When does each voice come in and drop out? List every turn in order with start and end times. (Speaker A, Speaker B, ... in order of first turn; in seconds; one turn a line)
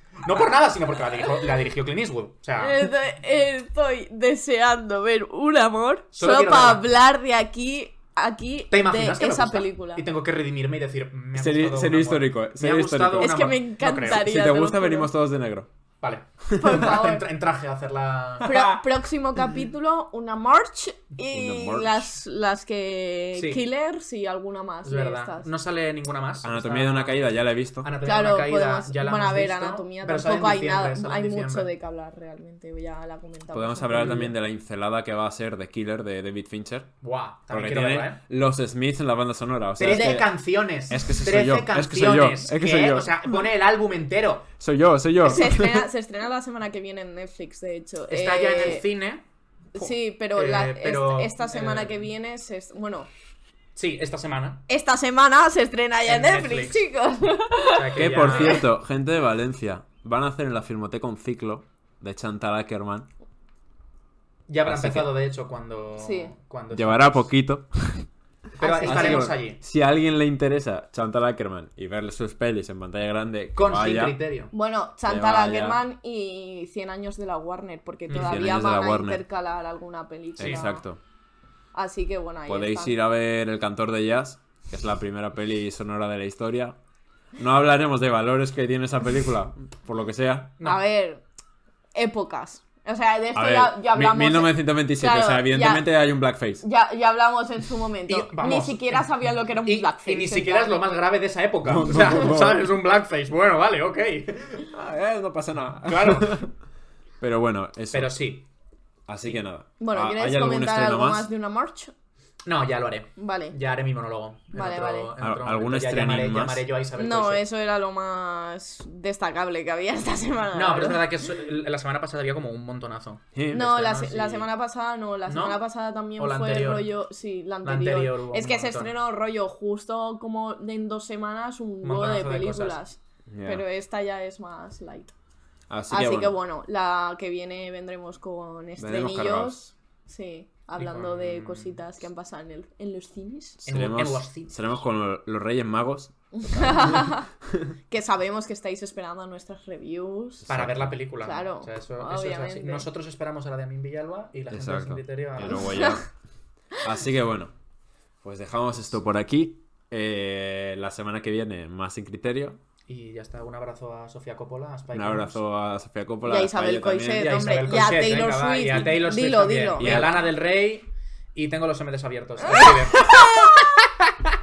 Speaker A: 0.2-2.8
Speaker B: 2.6-10.0
Speaker A: 6.1-6.8
Speaker A: 8.7-14.3
Speaker C: 11.3-13.5
Speaker B: 13.2-15.1
Speaker C: 14.0-15.7
Speaker A: 16.0-18.8
Speaker C: 16.5-16.9
Speaker B: 16.5-17.3
Speaker B: 18.4-25.5
Speaker C: 21.3-22.1
Speaker A: 23.4-23.6
Speaker A: 24.8-27.2
Speaker C: 26.4-27.9
Speaker A: 27.8-31.7
Speaker B: 28.0-34.3
Speaker C: 33.5-36.9
Speaker A: 37.0-38.2
Speaker C: 37.5-40.3
Speaker A: 39.8-44.5
Speaker B: 39.9-40.2
Speaker C: 40.9-43.3
Speaker C: 44.6-45.9
Speaker B: 45.2-48.9
Speaker A: 48.1-52.0
Speaker B: 49.8-53.1
Speaker A: 53.8-54.6
Speaker B: 54.7-58.7
Speaker A: 56.1-56.8
Speaker A: 57.7-58.7
Speaker C: 58.0-63.1
Speaker A: 64.5-67.2
Speaker C: 64.7-65.1
Speaker B: 66.0-66.3
Speaker C: 66.7-68.1
Speaker A: 68.6-69.6
Speaker B: 68.6-69.3
Speaker C: 68.8-74.2
Speaker A: 73.5-74.5
Speaker B: 74.5-80.8
Speaker C: 75.1-75.8
Speaker A: 78.1-78.4
Speaker C: 78.1-79.2
Speaker C: 80.4-81.0
Speaker A: 80.4-80.6
Speaker B: 81.7-83.0
Speaker C: 82.5-86.8
Speaker C: 87.4-90.5
Speaker B: 90.6-91.2
Speaker B: 92.0-95.9
Speaker C: 93.3-96.6
Speaker B: 96.6-100.8
Speaker A: 98.1-104.7
Speaker C: 101.7-102.7
Speaker C: 104.7-106.5
Speaker A: 105.7-106.5
Speaker C: 107.2-108.2
Speaker A: 107.9-108.5
Speaker C: 109.1-111.3
Speaker B: 109.8-111.9
Speaker A: 112.5-117.4
Speaker B: 113.2-113.6
Speaker B: 114.5-115.1
Speaker C: 115.2-116.7
Speaker B: 117.0-121.1
Speaker A: 120.5-124.4
Speaker C: 123.3-124.3
Speaker B: 123.5-135.1
Speaker A: 125.3-125.7
Speaker A: 126.2-126.9
Speaker A: 127.6-128.9
Speaker A: 131.8-132.8
Speaker C: 133.3-133.6
Speaker C: 135.7-136.4
Speaker B: 135.9-143.6
Speaker C: 138.8-139.6
Speaker A: 140.8-141.8
Speaker A: 143.6-144.7
Speaker C: 143.7-147.7
Speaker B: 146.4-147.2
Speaker B: 147.9-150.5
Speaker C: 150.5-150.9
Speaker A: 150.5-155.7
Speaker B: 151.2-152.8
Speaker C: 154.5-156.1
Speaker B: 155.6-156.0
Speaker C: 156.8-157.5
Speaker C: 158.2-162.6
Speaker A: 162.9-165.4
Speaker C: 164.9-167.3
Speaker B: 166.2-170.2
Speaker A: 167.1-174.0
Speaker C: 169.8-170.2
Speaker B: 172.5-173.6